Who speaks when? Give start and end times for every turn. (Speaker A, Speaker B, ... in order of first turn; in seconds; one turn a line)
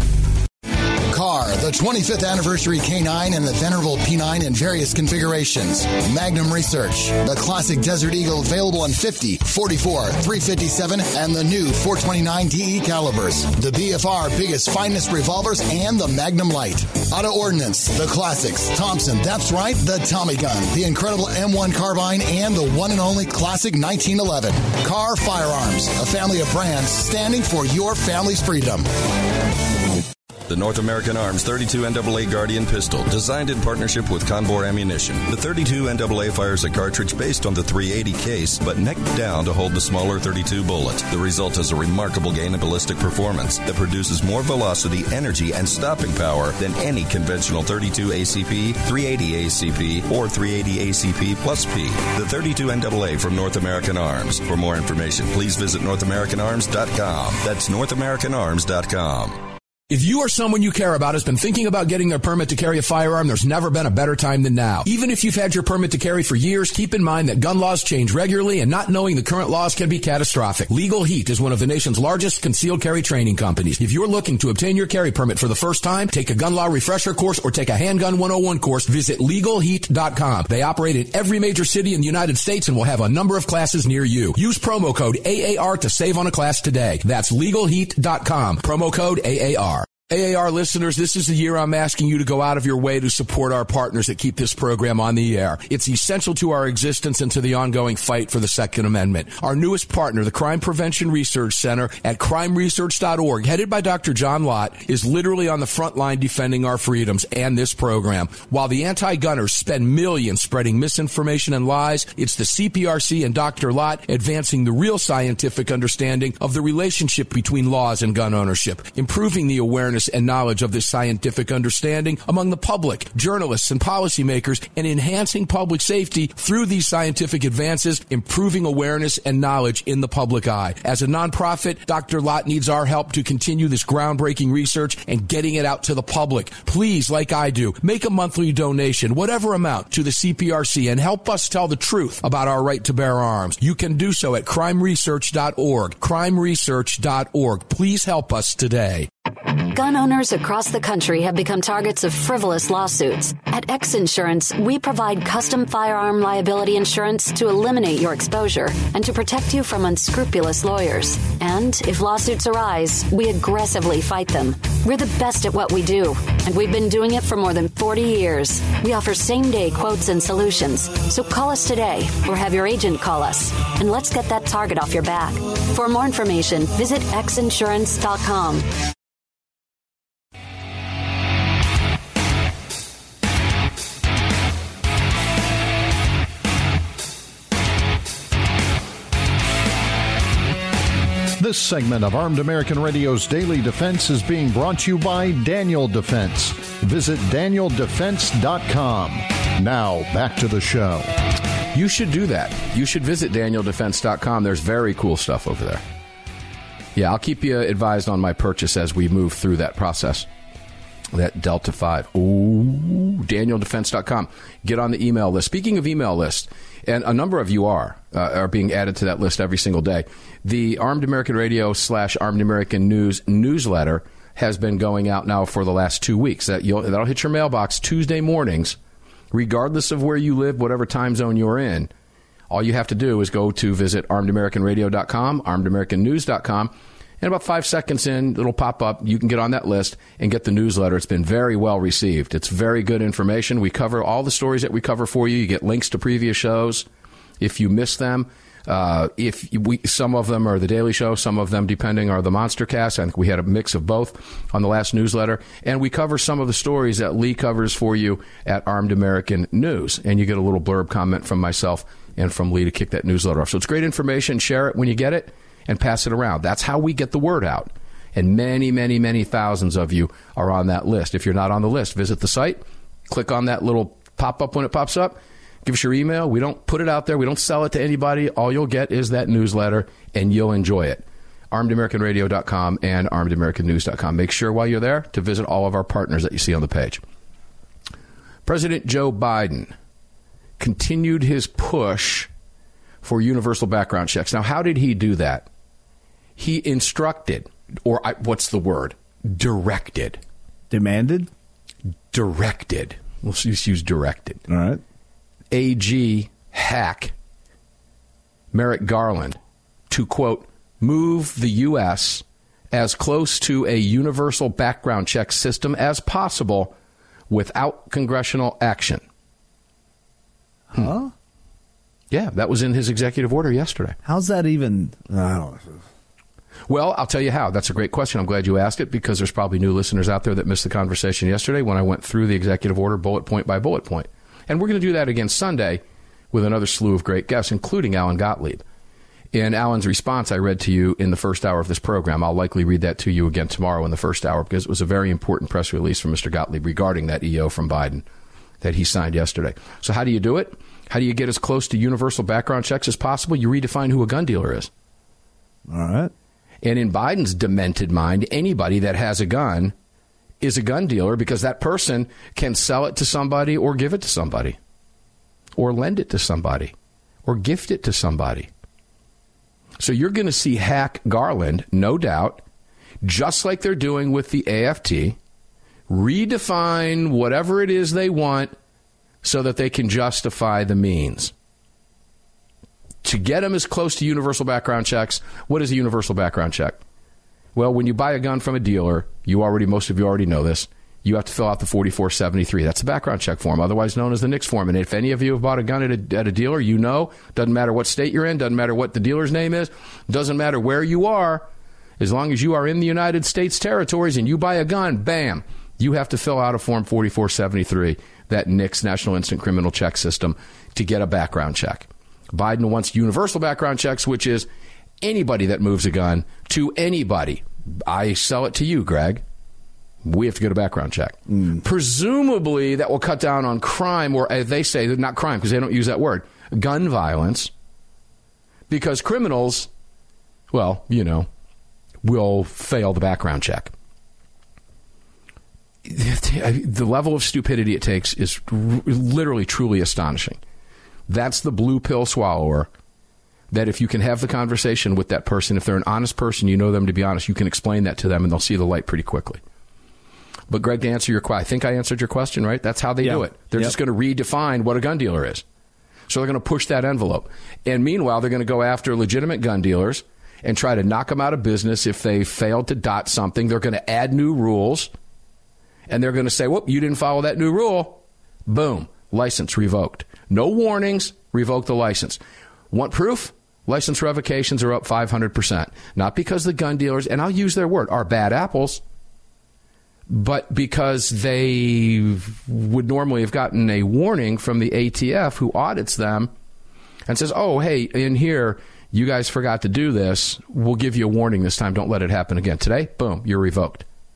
Speaker A: 1.1-28.9
Speaker B: 30.5-59.4
Speaker C: 59.9-149.1
Speaker D: 149.6-178.7
Speaker E: 191.4-201.2
Speaker C: 201.7-205.8
Speaker C: 206.9-210.3
Speaker C: 211.1-228.8
Speaker C: 229.3-231.9
Speaker C: 232.5-246.9
Speaker C: 247.4-287.0
Speaker C: 288.5-289.7
Speaker C: 290.6-292.3
Speaker C: 293.0-295.5
Speaker C: 296.4-300.2
Speaker F: 300.7-301.3
Speaker C: 302.1-304.4
Speaker F: 304.5-304.8
Speaker C: 305.5-307.1
Speaker C: 308.5-309.4
Speaker C: 309.9-316.8
Speaker C: 317.3-319.0
Speaker F: 320.7-321.1
Speaker C: 322.1-324.0
Speaker F: 324.1-325.8
Speaker C: 326.7-335.8
Speaker C: 336.3-338.6
Speaker C: 339.3-348.1
Speaker C: 348.6-354.7
Speaker F: 355.7-356.1
Speaker C: 356.6-359.7
Speaker C: 360.4-364.6
Speaker C: 365.6-366.7
Speaker C: 367.2-368.5
Speaker C: 369.8-372.4
Speaker C: 373.0-375.2
Speaker C: 375.9-378.5
Speaker C: 379.2-381.3
Speaker C: 383.0-386.8
Speaker C: 387.6-401.5
Speaker C: 402.0-414.5
Speaker C: 415.0-419.2
Speaker C: 420.0-427.5
Speaker C: 428.7-429.7
Speaker C: 430.5-431.3
Speaker C: 432.0-433.7
Speaker C: 435.9-440.4
Speaker C: 441.1-442.7
Speaker C: 443.5-449.4
Speaker C: 450.5-455.4
Speaker F: 453.0-453.8
Speaker C: 456.1-464.9
Speaker C: 465.9-472.2
Speaker C: 472.7-478.8
Speaker C: 480.1-486.3
Speaker C: 487.1-493.9